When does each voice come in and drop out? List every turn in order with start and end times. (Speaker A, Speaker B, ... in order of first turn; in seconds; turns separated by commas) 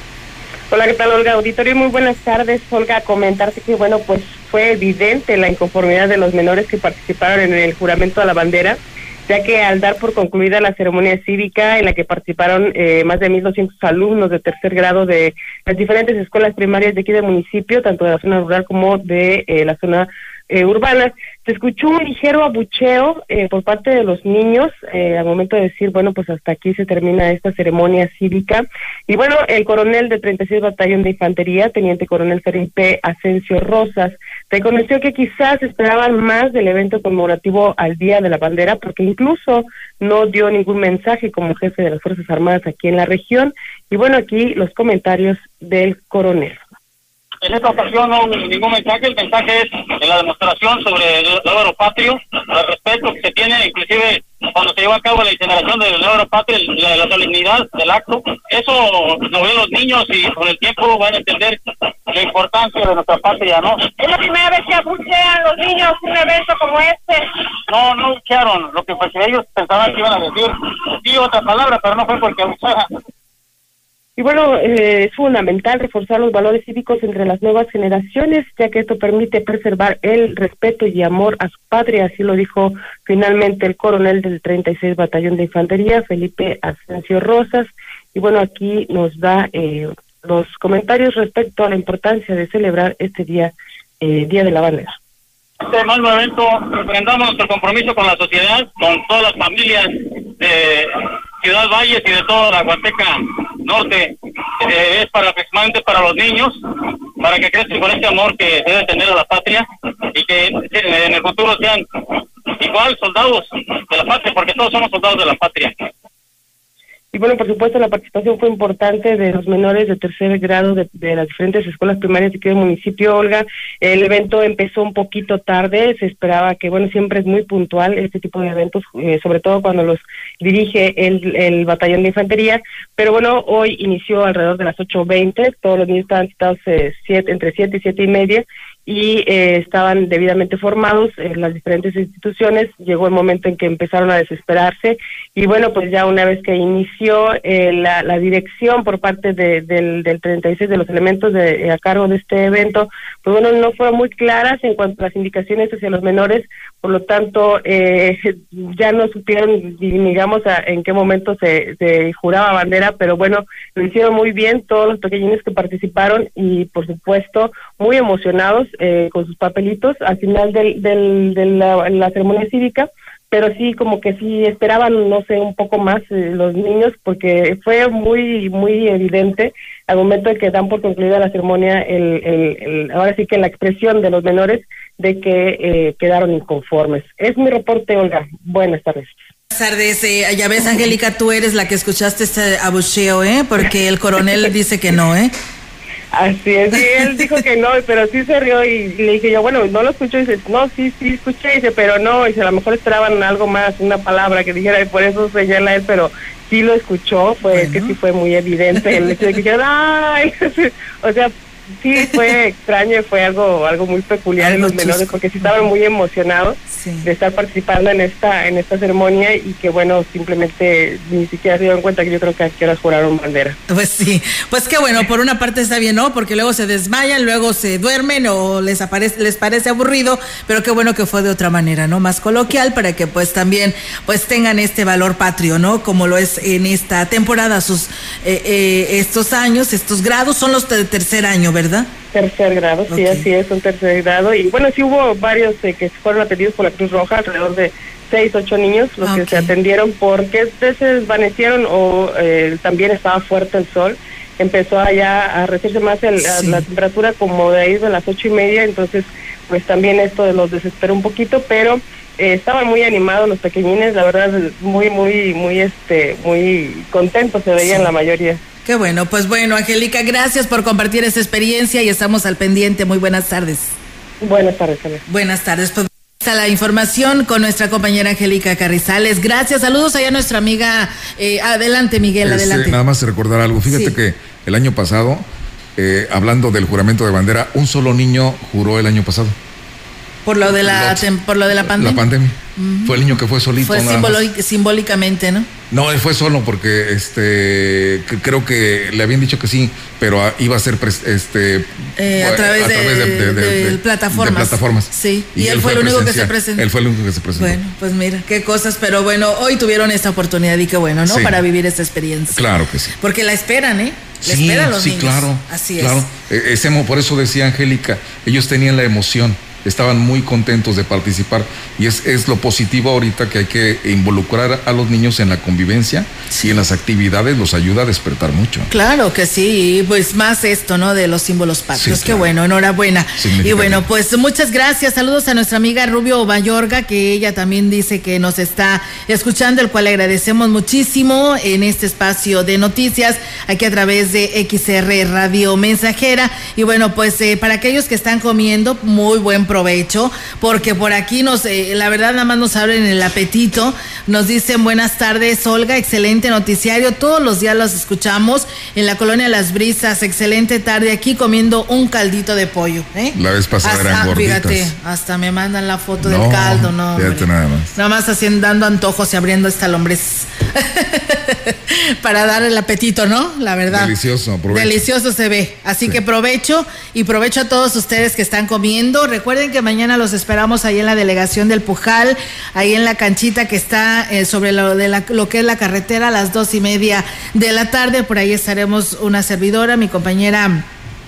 Speaker A: 0.7-46.6, Speaker B: 47.4-63.9, Speaker C: 64.0-67.2, Speaker B: 67.7-72.9, Speaker A: 74.2-94.9, Speaker B: 95.6-106.6, Speaker B: 107.2-115.8, Speaker A: 117.1-189.2, Speaker D: 189.5-195.3, Speaker A: 196.1-223.6, Speaker D: 207.5-208.0, Speaker D: 214.4-215.7, Speaker D: 216.7-217.1, Speaker D: 223.7-241.9, Speaker A: 242.1-268.4, Speaker D: 242.9-243.3, Speaker D: 249.0-249.5, Speaker D: 256.3-256.6, Speaker D: 267.6-267.9, Speaker D: 268.6-273.8, Speaker A: 274.2-275.0, Speaker D: 275.1-282.8, Speaker E: 282.2-285.2, Speaker D: 283.6-284.0, Speaker E: 285.8-289.4, Speaker D: 290.3-292.0, Speaker E: 290.5-291.1, Speaker E: 291.6-294.3, Speaker D: 292.6-293.0, Speaker D: 293.6-295.5, Speaker E: 295.7-307.6, Speaker D: 302.0-306.7, Speaker D: 307.4-312.4, Speaker E: 311.1-311.4, Speaker E: 312.3-312.9, Speaker D: 313.0-316.1, Speaker E: 314.2-328.7, Speaker D: 326.3-326.6, Speaker D: 328.7-373.9, Speaker E: 331.8-332.3, Speaker E: 333.2-333.8, Speaker E: 363.1-364.7, Speaker E: 366.0-367.7, Speaker E: 373.7-374.8, Speaker D: 374.5-390.7